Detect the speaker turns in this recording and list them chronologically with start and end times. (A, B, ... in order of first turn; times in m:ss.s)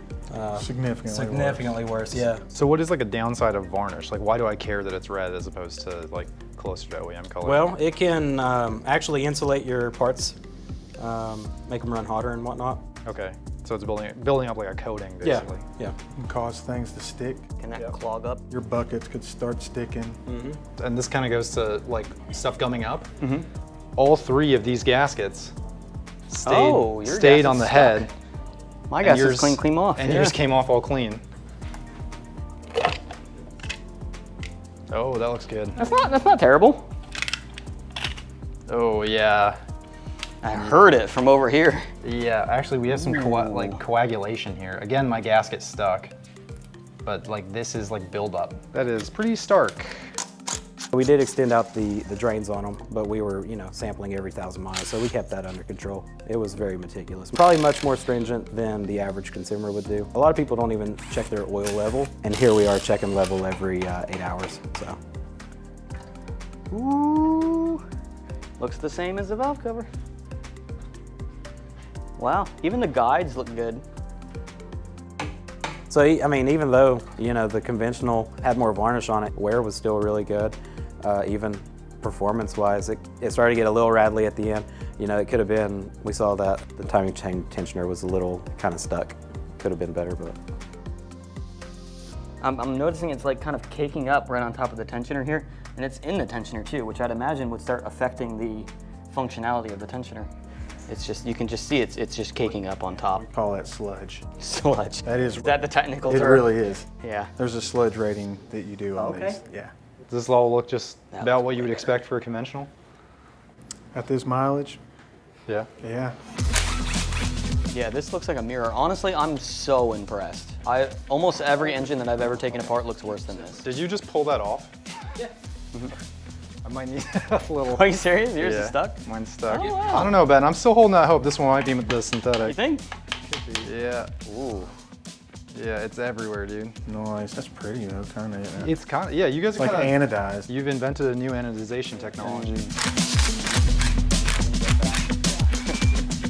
0:00.3-0:02.4 A
0:00.5-0:01.7 B
0:02.1-0:07.7 C
0:07.4-0:10.4 A
0:11.0-0:12.8 A
0:13.0-0:15.6 C
0:15.2-0:16.0 A
0:16.1-0:17.5 B
0:17.6-0:18.4 D
0:18.5-0:20.2 B
0:20.2-0:20.6 A
0:20.8-0:23.4 C
0:24.0-0:25.5 C
0:26.3-0:28.1 C
0:26.4-0:28.1 D
0:28.9-0:30.4 D
0:29.0-0:31.2 C
0:34.9-0:35.8 C
0:35.8-0:36.8 D
0:38.7-0:39.6 C
0:40.4-0:41.9 D
0:42.0-0:46.1 C
0:42.9-0:43.8 D
0:47.0-0:50.1 C
0:50.9-1:05.0 A
1:06.7-1:07.8 D
1:08.6-1:09.9 D
1:12.2-1:13.8 D
1:15.9-1:30.4 A
1:32.4-1:40.3 D
1:40.9-1:43.2 D
1:43.1-1:44.2 B
1:44.4-1:47.3 D
1:45.0-1:49.7 B
1:49.0-1:49.4 D
1:50.1-1:52.7 C
1:51.1-1:51.9 D
1:53.9-1:54.8 B
1:55.8-1:56.2 B
1:57.7-2:03.6 D
2:03.6-2:04.7 C
2:06.6-2:12.6 C
2:07.6-2:10.2 D
2:12.4-2:12.8 D
2:13.3-2:14.3 C
2:14.3-2:14.7 D
2:15.5-2:16.8 C
2:16.8-2:18.7 B
2:18.6-2:22.7 C
2:19.6-2:20.5 B
2:22.2-2:22.7 D
2:24.6-2:24.9 D